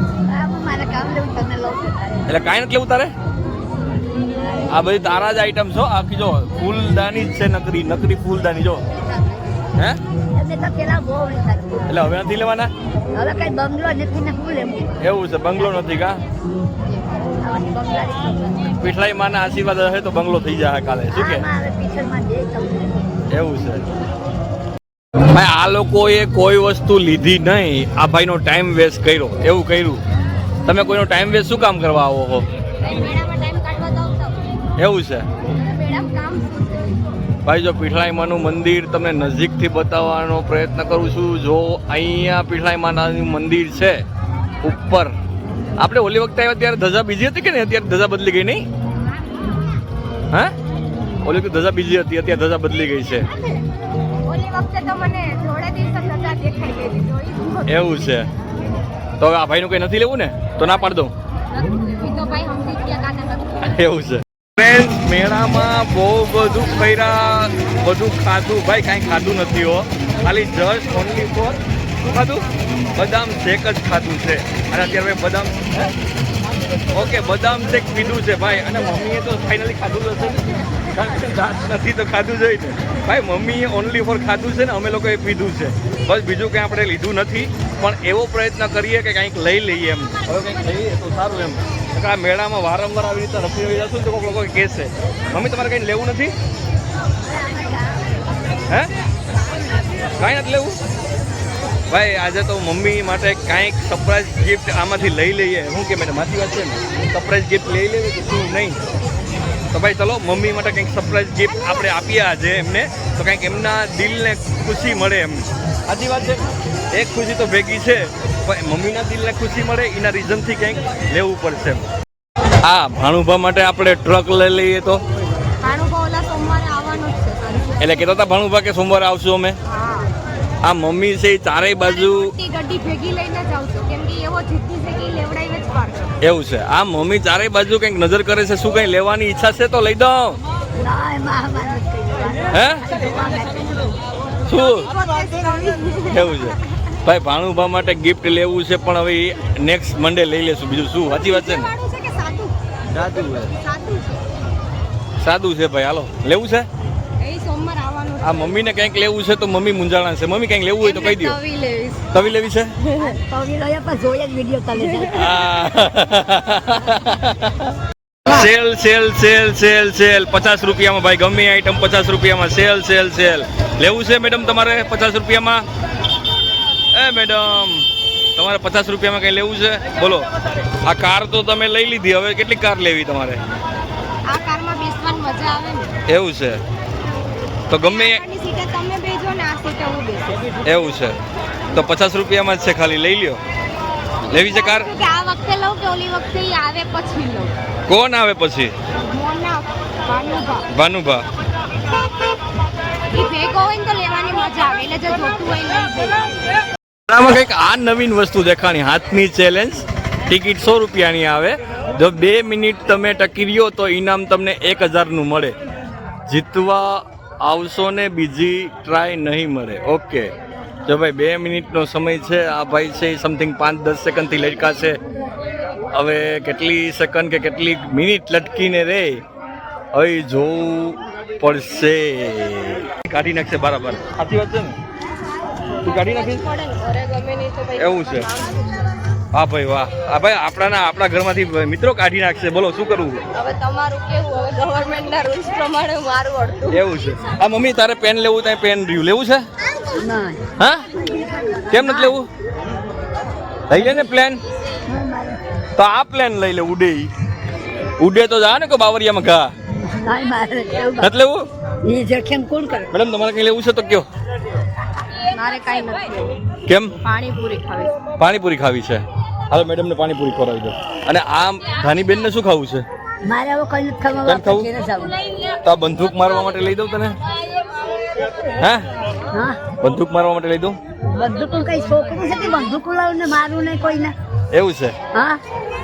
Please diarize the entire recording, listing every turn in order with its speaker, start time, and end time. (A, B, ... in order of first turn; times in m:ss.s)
0:00.3-0:02.4 A
0:02.3-0:03.1 B
0:04.3-0:04.7 A
0:04.7-0:08.8 B
0:08.9-0:09.5 C
0:10.3-0:11.9 A
0:11.9-0:12.7 B
0:13.1-0:15.0 A
0:15.0-0:16.2 B
0:17.4-0:18.7 A
0:18.8-0:21.4 B
0:21.1-0:23.1 A
0:23.3-0:23.8 B
0:25.3-0:30.0 B
0:30.6-0:32.4 B
0:32.8-0:34.4 C
0:34.8-0:35.2 B
0:35.5-0:37.1 C
0:37.4-0:44.0 B
0:44.6-0:45.1 B
0:45.8-0:48.6 B
0:51.2-0:53.3 B
0:53.3-0:53.6 C
0:54.2-0:58.1 C
0:57.6-0:58.3 B
0:59.2-1:01.1 B
1:01.5-1:03.8 C
1:03.6-1:15.9 B
1:16.9-1:36.3 B
1:37.2-1:38.0 A
1:40.2-1:40.8 B
1:41.9-1:48.8 B
1:49.7-2:01.8 B
2:02.6-2:05.0 B
2:05.6-2:08.1 C
2:07.8-2:09.6 B
2:09.7-2:10.1 C
2:10.6-2:12.3 B
2:11.8-2:16.1 C
2:16.2-2:20.4 B
2:20.8-2:24.0 A
2:22.5-2:22.8 B
2:24.5-2:24.9 B
2:24.5-2:26.4 C
2:26.1-2:31.7 B
2:31.0-2:34.2 C
2:32.9-2:33.5 B
2:35.2-2:36.7 B
2:37.2-2:38.5 C
2:38.2-2:41.4 B
2:40.8-2:42.0 C
2:42.1-2:42.7 B
2:42.8-2:43.2 C
2:43.0-2:45.3 A
2:44.7-2:45.4 C
2:45.1-2:47.7 B
2:48.2-2:55.6 B
2:56.9-3:00.3 B
3:00.8-3:03.4 B
3:04.2-3:05.9 C
3:06.0-3:06.6 B
3:07.7-3:08.2 B
3:07.7-3:10.6 C
3:10.6-3:11.2 B
3:11.7-3:13.4 B
3:14.3-3:17.6 C
3:14.3-3:14.9 B
3:17.9-3:18.7 B
3:19.0-3:20.7 C
3:20.7-3:21.2 B
3:23.1-3:26.3 C
3:27.1-3:35.5 B
3:36.2-3:40.3 B
3:40.8-3:45.0 B
3:45.9-3:49.2 B
3:49.9-3:54.8 B
3:55.8-3:56.4 B
3:55.8-3:58.8 C
3:57.8-3:58.3 B
3:59.3-4:03.2 B
4:03.3-4:06.8 C
4:06.7-4:09.4 B
4:10.0-4:10.4 A
4:10.6-4:10.8 B
4:11.1-4:12.1 A
4:11.7-4:12.3 B
4:13.7-4:14.4 B
4:14.8-4:15.4 A
4:15.8-4:17.1 B
4:18.0-4:19.5 B
4:19.9-4:21.1 A
4:21.0-4:21.4 B
4:21.8-4:22.9 A
4:22.9-4:24.1 B
4:25.2-4:26.4 C
4:26.7-4:26.9 B
4:27.0-4:28.0 C
4:28.2-4:32.8 B
4:33.2-4:35.2 A
4:34.2-4:34.7 B
4:35.6-4:37.2 B
4:38.6-4:38.8 B
4:39.3-4:39.6 A
4:39.8-4:40.8 B
4:41.1-4:44.1 A
4:44.5-4:44.9 B
4:45.1-4:45.4 A